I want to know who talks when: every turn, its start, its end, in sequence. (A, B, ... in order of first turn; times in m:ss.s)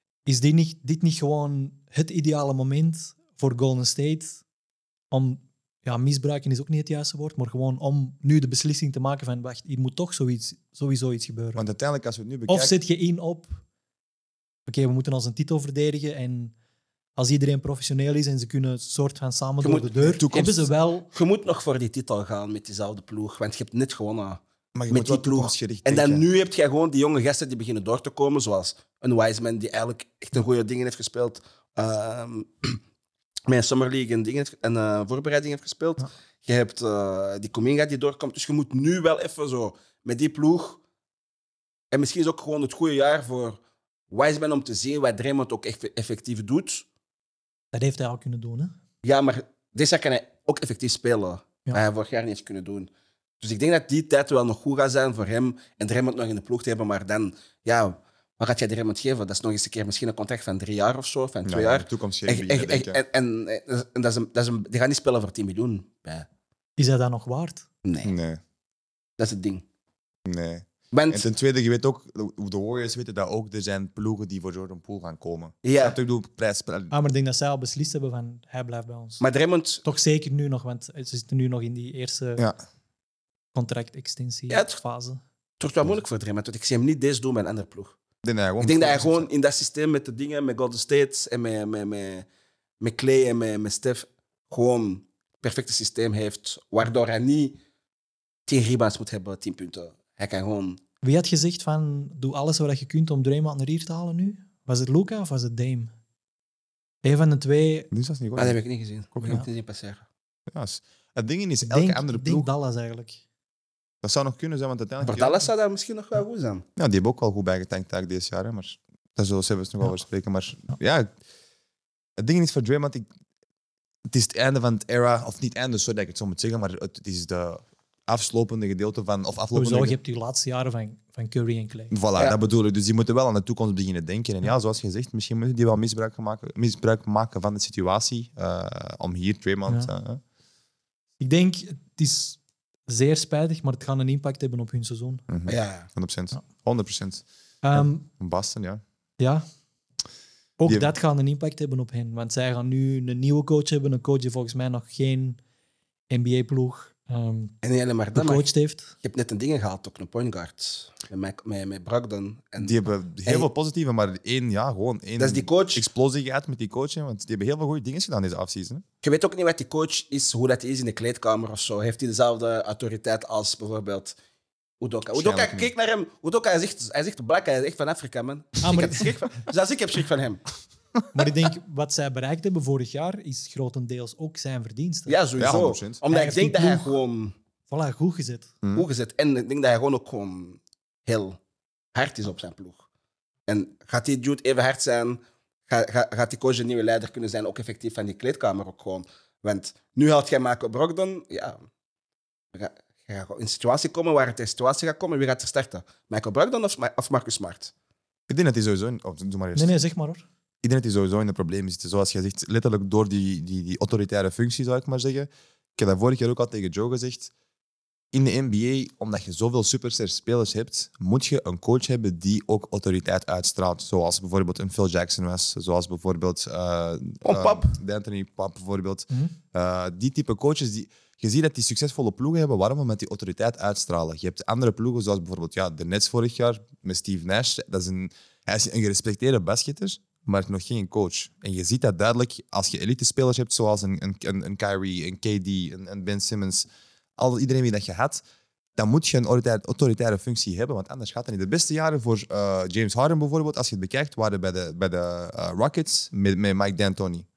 0:00.3-0:04.4 A
0:05.1-0:11.6 A
0:11.6-0:12.8 B
0:12.5-0:13.6 A
0:14.7-0:16.5 A
0:17.2-0:21.1 A
0:19.6-0:24.4 C
0:20.1-0:20.6 B
0:24.7-0:26.2 B
0:24.9-0:32.8 C
0:33.5-0:40.8 C
0:41.9-0:43.6 C
0:44.1-0:46.9 C
0:47.7-0:48.7 A
0:49.0-0:52.9 C
0:53.4-1:06.3 C
1:01.4-1:03.0 B
1:06.8-1:07.7 A
1:07.8-1:08.1 C
1:08.0-1:08.4 B
1:09.2-1:09.6 C
1:10.3-1:16.9 B
1:10.9-1:11.3 C
1:15.6-1:16.0 C
1:16.9-1:19.2 A
1:19.2-1:19.8 C
1:19.8-1:22.5 A
1:23.6-1:25.2 A
1:25.6-1:28.0 C
1:28.2-1:29.3 B
1:28.6-1:32.2 C
1:32.8-1:37.6 C
1:38.5-1:40.8 C
1:41.0-1:45.9 A
1:47.0-1:47.9 A
1:47.9-1:48.6 B
1:48.4-1:50.0 C
1:49.2-1:49.5 B
1:50.5-1:52.5 B
1:51.7-1:53.2 A
1:54.0-1:55.4 B
1:55.1-1:56.6 C
1:56.8-2:01.1 B
2:02.2-2:03.0 B
2:04.1-2:10.0 B
2:09.6-2:11.9 A
2:11.9-2:20.2 B
2:21.2-2:25.2 A
2:25.3-2:28.8 B
2:25.5-2:25.9 C
2:27.6-2:28.1 A
2:29.2-2:29.4 A
2:30.6-2:35.4 A
2:30.6-2:30.9 B
2:36.1-2:37.6 A
2:37.6-2:38.5 C
2:38.2-2:38.9 A
2:39.0-2:43.5 C
2:42.6-2:48.8 B
2:45.2-2:45.8 C
2:49.0-2:54.2 C
2:54.8-3:00.4 C
2:55.2-2:55.7 B
2:58.6-2:59.1 A
3:01.1-3:05.2 A
3:05.1-3:07.3 C
3:05.4-3:06.0 B
3:06.1-3:07.0 A
3:07.7-3:08.5 A
3:08.7-3:11.4 C
3:11.9-3:12.9 C
3:13.5-3:21.6 C
3:22.5-3:27.7 C
3:28.3-3:29.8 B
3:29.6-3:30.2 A
3:30.6-3:37.3 B
3:38.1-4:08.2 B
3:47.2-3:47.8 C
4:08.8-4:17.3 B